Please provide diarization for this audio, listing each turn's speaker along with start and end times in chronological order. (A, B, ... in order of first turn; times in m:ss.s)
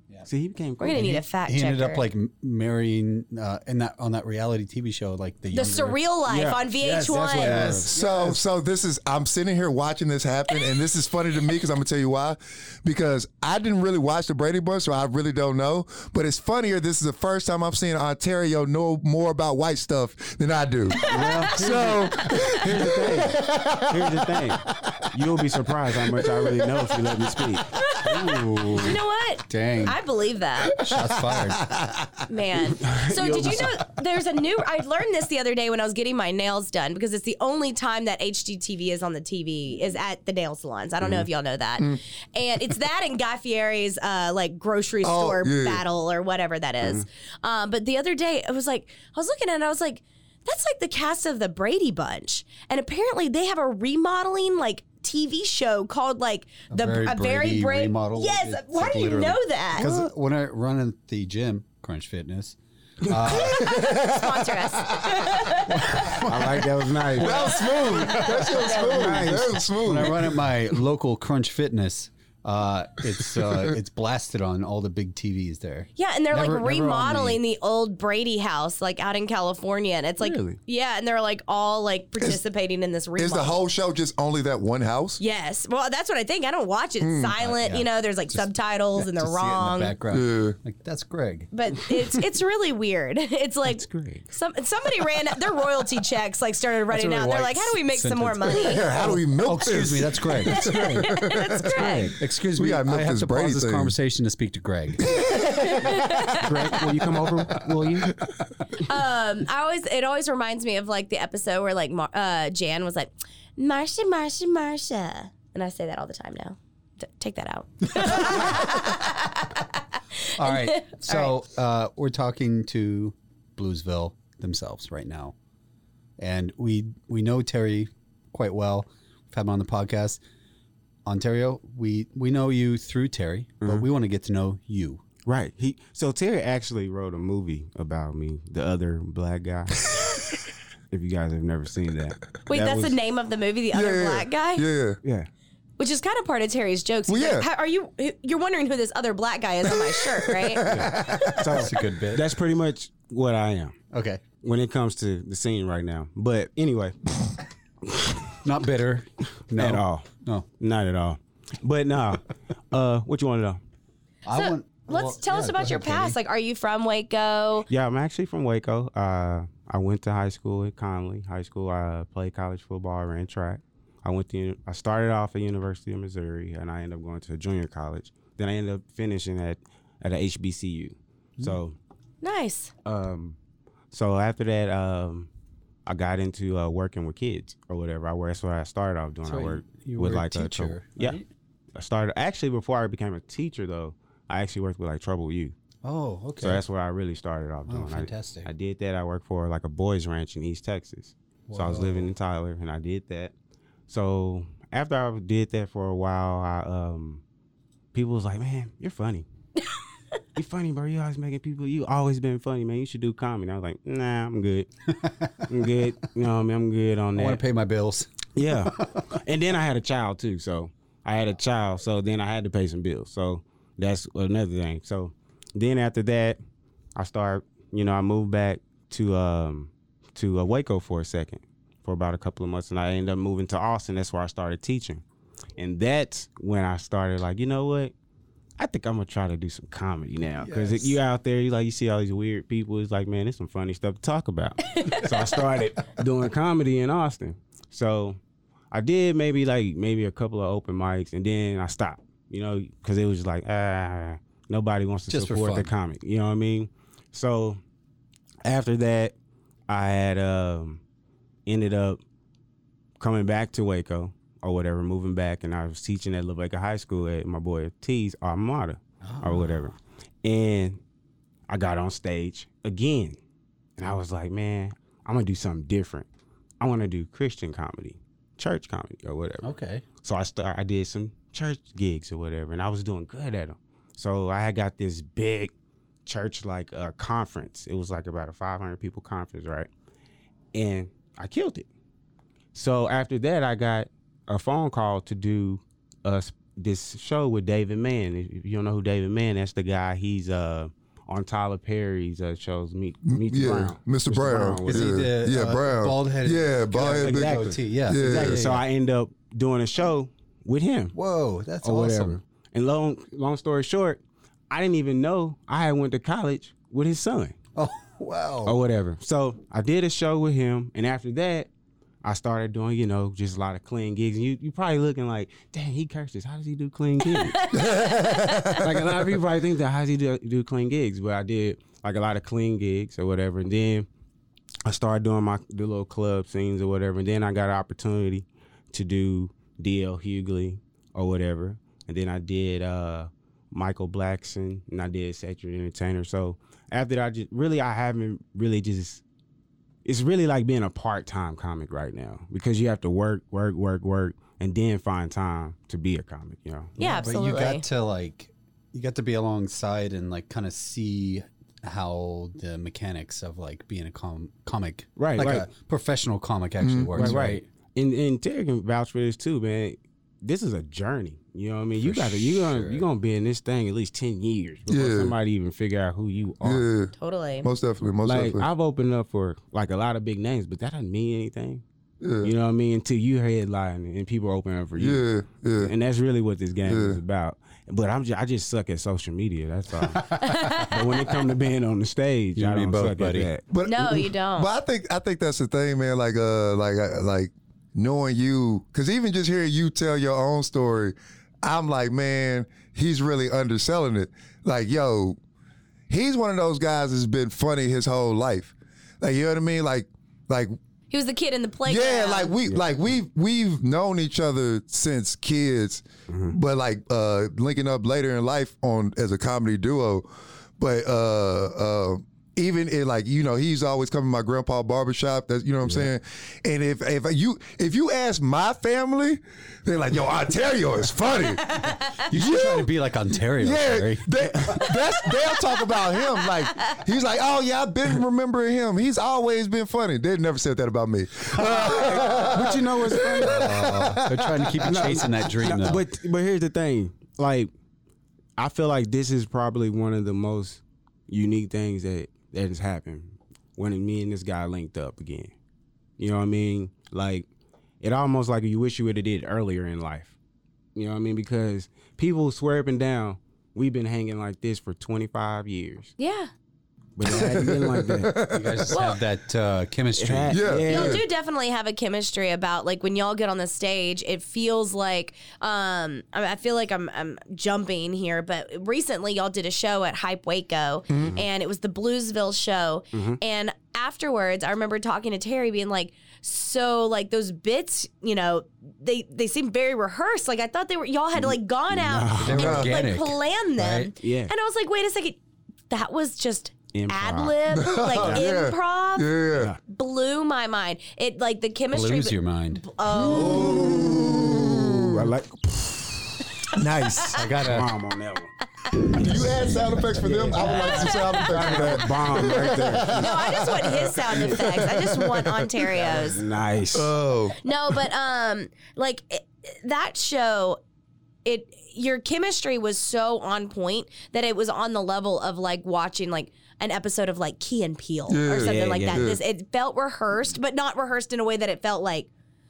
0:00.2-0:01.2 A
0:00.8-0:02.1 B
0:00.9-0:06.0 C
0:05.5-0:07.8 B
0:06.3-0:06.6 A
0:06.8-0:08.4 C
0:07.4-0:07.9 A
0:07.9-0:24.4 D
0:21.0-0:27.7 A
0:21.1-0:21.4 B
0:27.8-0:30.8 B
0:28.0-0:30.0 C
0:30.8-0:31.7 C
0:31.7-0:32.1 D
0:32.3-1:00.0 B
0:32.8-0:33.8 A
0:45.0-0:45.8 D
0:56.7-1:03.6 C
1:03.5-1:06.2 B
1:03.5-1:05.2 D
1:05.7-1:06.6 C
1:06.2-1:07.5 A
1:07.2-1:10.3 D
1:07.2-1:09.2 B
1:08.9-1:09.7 A
1:09.8-1:17.4 C
1:16.0-1:23.6 B
1:23.2-1:25.2 D
1:25.2-1:29.9 B
1:27.0-1:27.3 D
1:27.4-1:31.9 C
1:30.1-1:30.6 D
1:31.5-1:38.9 B
1:33.7-1:34.3 A
1:36.9-1:40.7 C
1:38.5-1:41.9 D
1:40.5-1:42.1 B
1:41.8-1:45.2 C
1:42.5-1:43.9 D
1:45.2-1:45.5 D
1:45.3-1:46.8 B
1:46.4-1:48.1 A
1:48.8-1:59.7 B
1:58.0-1:58.8 C
2:00.4-2:05.3 C
2:00.4-2:01.3 B
2:06.2-2:10.2 C
2:11.1-2:15.0 C
2:13.6-2:13.9 A
2:15.2-2:19.9 A
2:20.9-2:23.0 A
2:22.5-2:24.7 B
2:23.7-2:25.0 D
2:25.0-2:25.3 A
2:25.8-2:30.6 B
2:27.1-2:27.5 D
2:30.3-2:31.5 D
2:30.7-2:32.3 C
2:31.4-2:33.8 A
2:33.9-2:34.2 C
2:34.4-2:37.0 A
2:37.9-2:38.3 A
2:38.4-2:40.5 C
2:39.5-2:40.1 A
2:40.6-2:43.6 A
2:44.2-2:46.2 C
2:44.3-2:47.6 B
2:47.7-3:01.8 A
3:02.2-3:02.7 B
3:02.8-3:03.4 A
3:03.9-3:05.3 A
3:05.9-3:11.2 A
3:09.2-3:11.2 C
3:11.8-3:15.6 A
3:15.8-3:16.6 C
3:16.4-3:23.3 A
3:17.7-3:18.5 C
3:21.5-3:22.1 C
3:23.9-3:27.2 A
3:27.9-3:29.2 A
3:30.4-3:34.7 A
3:35.0-3:35.3 C
3:35.5-3:37.4 A
3:37.1-3:38.1 C
3:38.4-3:46.4 A
3:38.6-3:39.0 C
3:47.0-3:55.0 A
3:55.6-3:57.9 A
3:58.6-4:08.2 A
4:00.4-4:01.0 C
4:08.7-4:17.6 A
4:15.1-4:15.7 C
4:18.4-4:19.1 A
4:19.7-4:20.8 A
4:21.5-4:22.0 A
4:23.0-4:30.8 A
4:29.0-4:29.7 C
4:31.5-4:33.2 A
4:33.8-4:36.1 A
4:36.6-4:39.5 A
4:39.4-4:39.8 C
4:40.0-4:45.5 A
4:46.1-4:49.7 A
4:50.5-4:51.7 A
4:52.5-5:05.1 A
5:03.1-5:08.4 D
5:04.6-5:08.6 C
5:07.0-5:10.9 A
5:10.9-5:12.2 C
5:11.6-5:17.4 A
5:17.6-5:18.6 C
5:18.5-5:21.5 A
5:22.0-5:27.4 A
5:27.1-5:28.6 B
5:27.5-5:28.9 D
5:28.6-5:33.9 A
5:34.6-5:49.0 A
5:49.8-5:56.7 A
5:56.8-5:57.6 B
5:56.8-6:07.5 C
6:05.0-6:05.5 A
6:06.6-6:07.2 D
6:07.0-6:16.7 A
6:11.8-6:12.8 C
6:14.7-6:15.1 D
6:16.4-6:18.5 D
6:17.0-6:17.5 B
6:18.0-6:21.6 A
6:22.0-6:22.3 D
6:22.2-6:25.0 A
6:24.8-6:25.7 D
6:25.6-6:30.1 A
6:26.6-6:27.0 D
6:29.9-6:30.7 C
6:30.2-6:30.7 B
6:30.7-6:33.4 A
6:32.4-6:33.3 C
6:33.5-6:45.2 D
6:33.6-6:34.5 B
6:45.9-6:50.5 D
6:50.9-6:52.3 B
6:51.6-7:00.1 D
6:56.1-6:56.4 A
7:00.6-7:12.7 D
7:11.5-7:11.9 B
7:12.1-7:14.1 C
7:13.4-7:24.9 D
7:14.2-7:14.5 A
7:21.6-7:23.4 A
7:23.2-7:25.8 C
7:24.6-7:27.5 A
7:28.4-7:35.3 A
7:36.0-7:37.2 A
7:37.8-7:40.1 A
7:40.8-7:45.9 A
7:46.0-7:46.3 B
7:47.0-7:48.2 A
7:47.0-7:48.7 D
7:48.3-7:50.4 C
7:48.7-7:49.0 B
7:50.0-7:51.0 A
7:50.3-7:51.0 D
7:50.7-8:15.2 B
8:00.9-8:01.2 D
8:02.9-8:03.2 A
8:11.7-8:12.6 A
8:12.2-8:13.9 C
8:12.4-8:12.7 D
8:14.0-8:14.3 A
8:15.7-8:19.1 B
8:16.7-8:17.4 A
8:17.5-8:19.5 D
8:17.9-8:18.2 A
8:19.6-8:23.9 B
8:21.7-8:22.6 C
8:22.9-8:25.1 D
8:23.9-8:28.3 A
8:26.6-8:27.1 D
8:27.1-8:27.7 C
8:29.0-8:35.5 D
8:29.0-8:29.4 A
8:30.0-8:33.2 A
8:30.4-8:31.6 B
8:32.9-8:36.2 B
8:34.1-8:34.6 A
8:35.7-8:36.9 A
8:36.7-8:37.4 D
8:37.4-8:40.6 B
8:41.2-8:52.1 B
8:48.1-8:49.2 D
8:48.4-8:49.1 A